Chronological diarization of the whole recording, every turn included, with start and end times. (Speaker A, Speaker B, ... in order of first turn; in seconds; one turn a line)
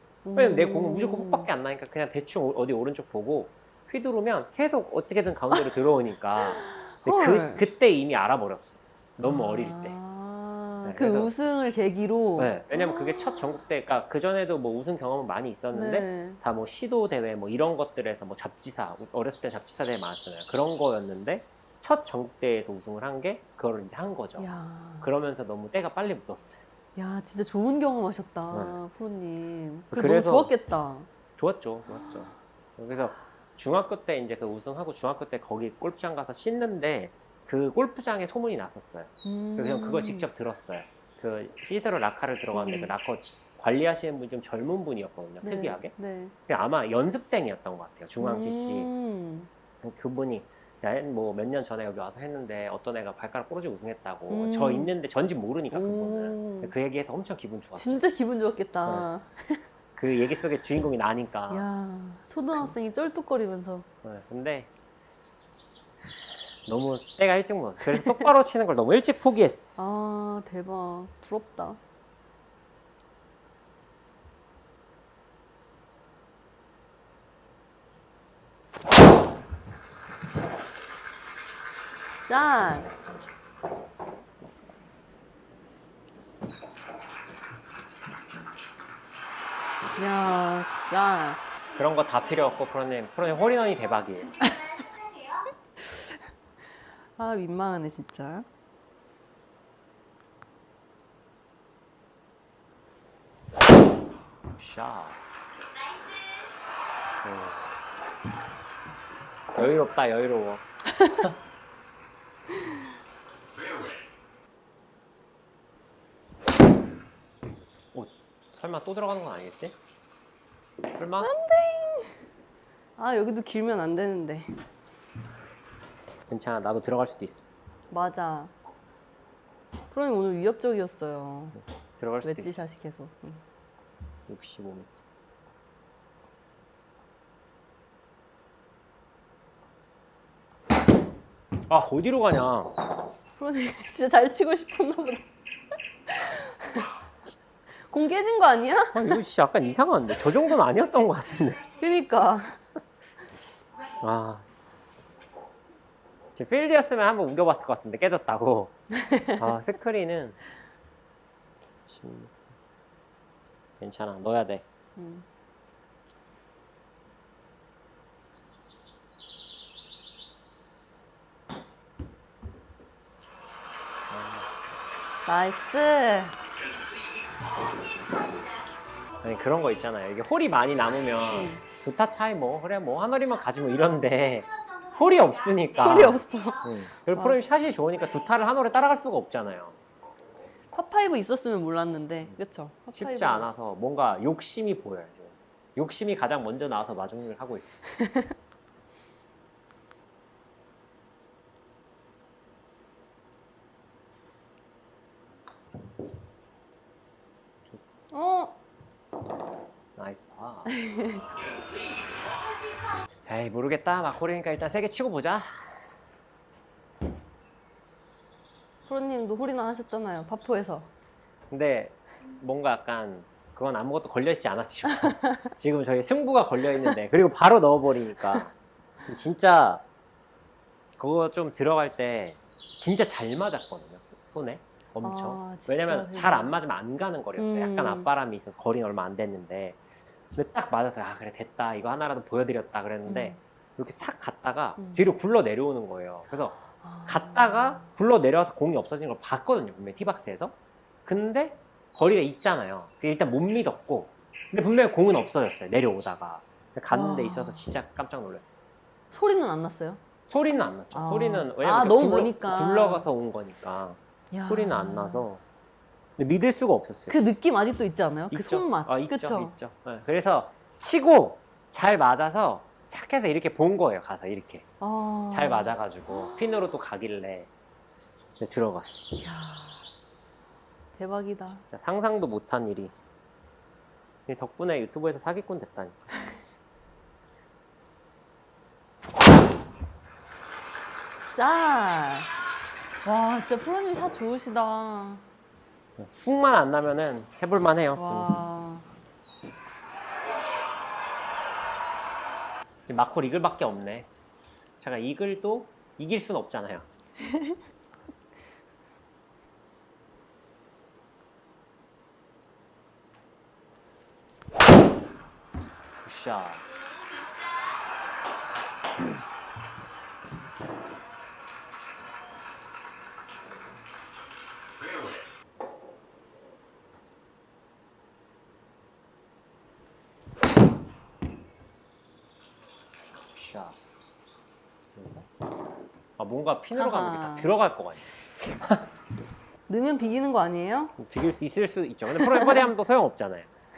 Speaker A: 0.2-1.5
Speaker B: 0.3-10.0
Speaker A: 6.4-7.6
Speaker A: 9.2-13.6
Speaker B: 10.8-11.3
Speaker B: 12.4-26.6
Speaker A: 15.7-16.4
Speaker A: 24.4-25.1
Speaker A: 27.0-31.1
Speaker B: 29.9-30.5
Speaker B: 31.4-45.9
Speaker A: 39.2-40.3
Speaker A: 42.5-42.9
Speaker A: 45.4-46.4
Speaker B: 46.5-48.9
Speaker A: 48.2-49.5
Speaker B: 49.8-58.0
Speaker A: 54.3-54.9
Speaker A: 55.7-56.7
Speaker A: 57.8-59.6
Speaker B: 60.0-61.6
Speaker A: 61.5-63.9
Speaker B: 64.0-64.7
Speaker B: 66.7-69.8
Speaker A: 69.8-71.8
Speaker A: 82.1-82.9
Speaker A: 90.0-91.4
Speaker B: 91.8-94.5
Speaker C: 94.2-95.5
Speaker A: 95.8-96.2
Speaker A: 97.2-98.5
Speaker B: 104.6-105.2
Speaker C: 105.7-106.6
Speaker B: 107.2-107.7
Speaker B: 109.5-110.7
Speaker B: 117.9-119.8
Speaker B: 121.0-121.3
Speaker A: 121.2-122.2
Speaker A: 123.0-124.6
Speaker B: 126.3-127.5
Speaker A: 127.9-128.5
Speaker A: 129.9-131.6
Speaker B: 132.0-132.6
Speaker A: 132.2-133.4
Speaker B: 134.3-135.0
Speaker B: 141.7-142.8
Speaker A: 143.4-145.3
Speaker A: 146.1-146.9
Speaker A: 147.9-149.2
Speaker B: 148.9-151.7
Speaker A: 151.8-152.6
Speaker B: 154.0-154.4
Speaker B: 156.4-160.4
Speaker B: 161.9-162.4
Speaker B: 163.8-164.6
Speaker A: 165.0-165.3
Speaker B: 174.1-174.5
Speaker A: 175.3-176.4
Speaker B: 179.2-189.8
Speaker A: 181.3-181.6
Speaker C: 184.4-186.6
Speaker A: 185.8-187.4
Speaker A: 190.7-193.5
Speaker B: 192.9-197.8
Speaker A: 198.0-198.3
Speaker A: 208.1-208.6
Speaker B: 210.0-210.7
Speaker A: 210.7-211.2
Speaker C: 212.3-212.8
Speaker B: 213.3-215.8
Speaker A: 218.9-220.9
Speaker B: 221.5-228.5
Speaker B: 229.1-229.8
Speaker B: 231.0-239.8
Speaker A: 235.0-236.6
Speaker A: 237.4-238.1
Speaker B: 240.3-258.6
Speaker A: 243.1-243.4
Speaker A: 244.8-245.0
Speaker A: 246.8-247.9
Speaker A: 256.9-257.7
Speaker A: 259.1-260.0
Speaker B: 260.3-265.4
Speaker A: 260.9-263.1
Speaker A: 264.3-265.3
Speaker B: 266.2-267.4
Speaker A: 267.1-269.6
Speaker B: 268.3-274.7
Speaker A: 274.8-275.7
Speaker B: 275.3-277.5
Speaker B: 278.4-279.2
Speaker A: 279.2-279.9
Speaker A: 280.9-281.6
Speaker B: 281.6-282.9
Speaker B: 284.3-286.1
Speaker A: 291.2-292.3
Speaker A: 293.0-295.2
Speaker B: 296.0-298.3
Speaker A: 298.0-298.9
Speaker B: 302.9-304.1
Speaker B: 304.8-306.9
Speaker A: 307.3-307.6
Speaker B: 316.0-316.6
Speaker C: 316.7-317.8
Speaker B: 333.2-333.8
Speaker B: 335.0-335.3
Speaker B: 336.2-338.8
Speaker A: 336.8-337.5
Speaker A: 339.7-340.9
Speaker B: 341.0-343.5
Speaker A: 342.2-342.7